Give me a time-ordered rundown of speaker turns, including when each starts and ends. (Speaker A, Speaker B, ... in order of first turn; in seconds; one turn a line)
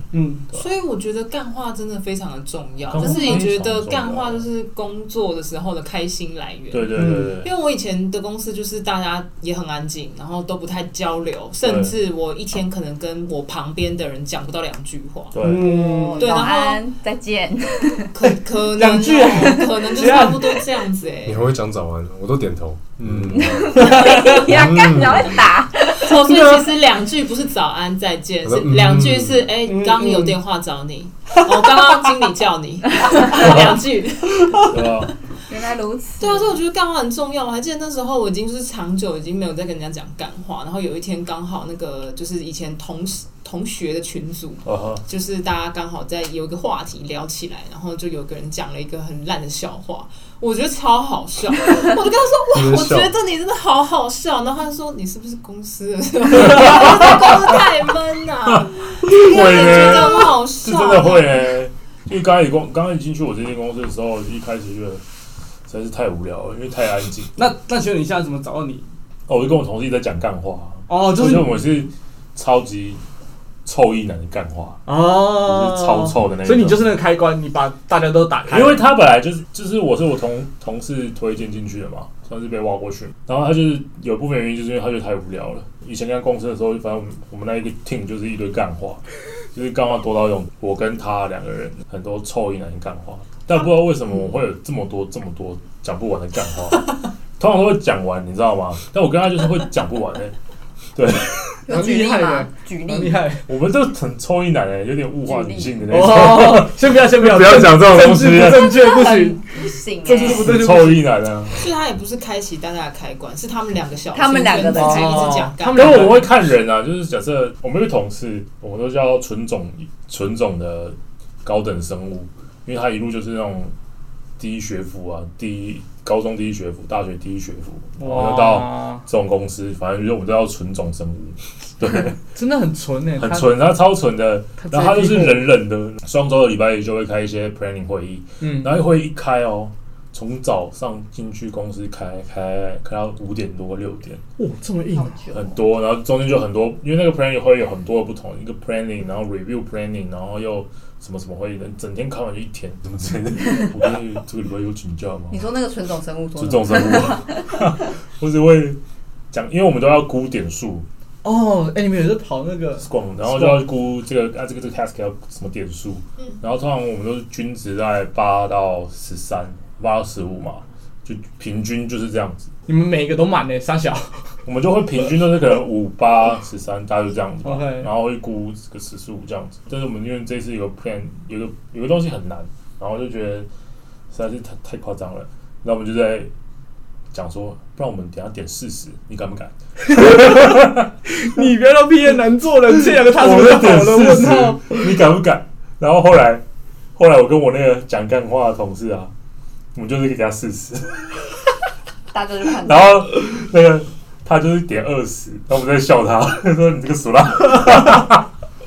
Speaker A: 0.1-0.5
Speaker B: 0.5-15.4
Speaker C: 2.9-4.5
Speaker C: 6.7-7.5
Speaker A: 7.0-7.4
Speaker C: 11.6-12.0
Speaker C: 15.3-15.8
Speaker A: 15.4-16.4
Speaker D: 15.6-18.1
Speaker B: 16.2-16.8
Speaker B: 18.1-21.5
Speaker A: 18.8-20.6
Speaker D: 19.4-19.7
Speaker E: 21.2-25.5
Speaker C: 23.0-23.4
Speaker D: 23.3-26.2
Speaker A: 23.8-24.4
Speaker B: 25.9-35.0
Speaker A: 26.3-26.7
Speaker E: 28.4-29.5
Speaker A: 29.7-30.4
Speaker C: 34.7-35.1
Speaker D: 35.5-36.6
Speaker B: 36.2-61.5
Speaker C: 44.6-45.0
Speaker E: 52.5-53.1
Speaker C: 58.6-65.0
Speaker C: 65.7-67.4
Speaker A: 67.4-68.9
Speaker C: 69.3-73.0
Speaker A: 70.9-71.6
Speaker C: 73.7-76.9
Speaker A: 74.9-78.8
Speaker C: 78.5-100.3
Speaker C: 101.0-101.6
Speaker D: 101.7-103.2
Speaker A: 101.7-103.5
Speaker C: 103.5-108.7
Speaker D: 105.3-106.1
Speaker A: 105.9-109.4
Speaker D: 108.4-110.5
Speaker A: 110.0-111.1
Speaker C: 110.2-111.7
Speaker B: 111.5-116.1
Speaker D: 114.1-115.4
Speaker A: 114.7-116.3
Speaker C: 115.7-123.7
Speaker C: 124.4-132.2
Speaker A: 128.0-129.1
Speaker A: 132.2-133.6
Speaker C: 133.2-144.2
Speaker A: 134.6-135.5
Speaker A: 138.4-138.8
Speaker A: 144.4-145.2
Speaker D: 144.9-145.6
Speaker C: 145.3-155.5
Speaker D: 155.3-157.6
Speaker C: 156.4-158.8
Speaker C: 159.3-160.9
Speaker A: 161.2-163.7
Speaker C: 162.8-172.5
Speaker A: 172.7-174.3
Speaker C: 174.4-183.5
Speaker A: 177.4-177.9
Speaker C: 184.1-186.3
Speaker C: 187.1-190.9
Speaker A: 189.9-194.9
Speaker C: 193.1-196.4
Speaker C: 197.0-199.1
Speaker C: 199.8-201.4
Speaker D: 202.1-203.1
Speaker C: 202.6-208.2